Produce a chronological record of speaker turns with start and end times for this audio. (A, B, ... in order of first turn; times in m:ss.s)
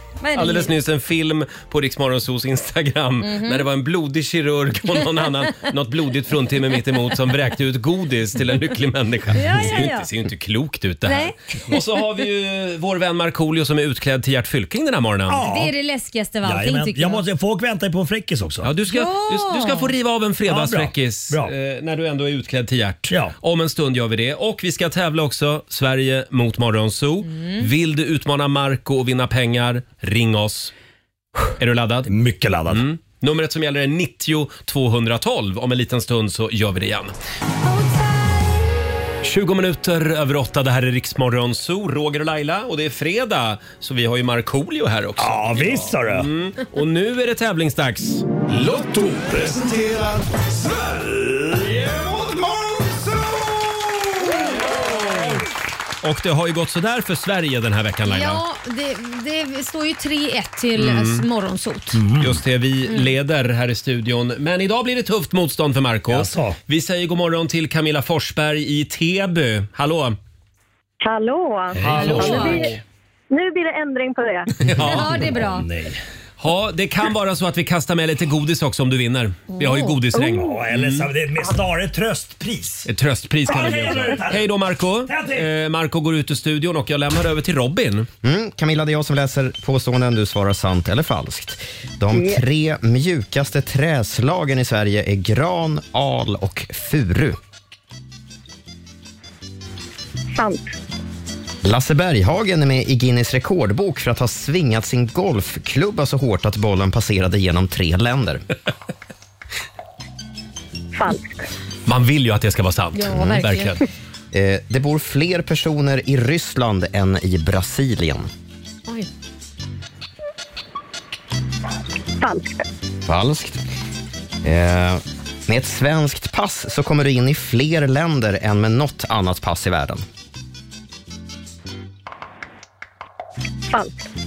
0:00.2-0:00.7 A
0:00.3-0:15.4 B
0:03.2-0:03.6 A
0:09.3-0:10.1 A
0:11.0-0:11.3 A
0:15.3-0:15.7 C
0:15.4-0:17.2 A
0:16.4-0:18.7 C
0:18.6-0:30.7 B
0:18.9-0:19.9 A
0:20.5-0:21.5 C
0:27.3-0:27.7 A
0:31.6-0:32.1 B
0:32.1-0:32.8 C
0:32.7-0:37.1 B
0:39.2-0:48.3 B
0:45.2-0:46.3 C
0:48.6-0:50.2 C
0:50.9-0:51.6 C
0:56.0-0:58.4 B
0:58.0-1:02.0 A
1:00.8-1:01.2 B
1:01.9-1:02.4 C
1:02.2-1:10.2 B
1:06.1-1:06.6 C
1:11.0-1:12.7 D
1:11.7-1:12.7 C
1:11.8-1:12.8 B
1:11.9-1:12.7 A
1:13.3-1:14.5 D
1:14.6-1:15.3 B
1:14.6-1:16.0 C
1:14.8-1:15.7 A
1:16.4-1:21.1 B
1:19.6-1:20.0 A
1:20.3-1:22.9 C
1:22.9-1:28.1 B
1:23.5-1:24.5 C
1:25.1-1:25.4 C
1:28.2-1:37.4 E
1:32.1-1:32.4 D
1:40.3-1:40.7 D
1:41.6-1:48.4 E
1:50.9-1:51.4 D
1:51.9-1:53.8 B
1:52.9-1:53.8 A
1:54.3-1:58.3 E
2:02.2-2:02.6 D
2:03.0-2:03.6 E
2:04.4-2:10.0 E
2:13.7-2:14.1 D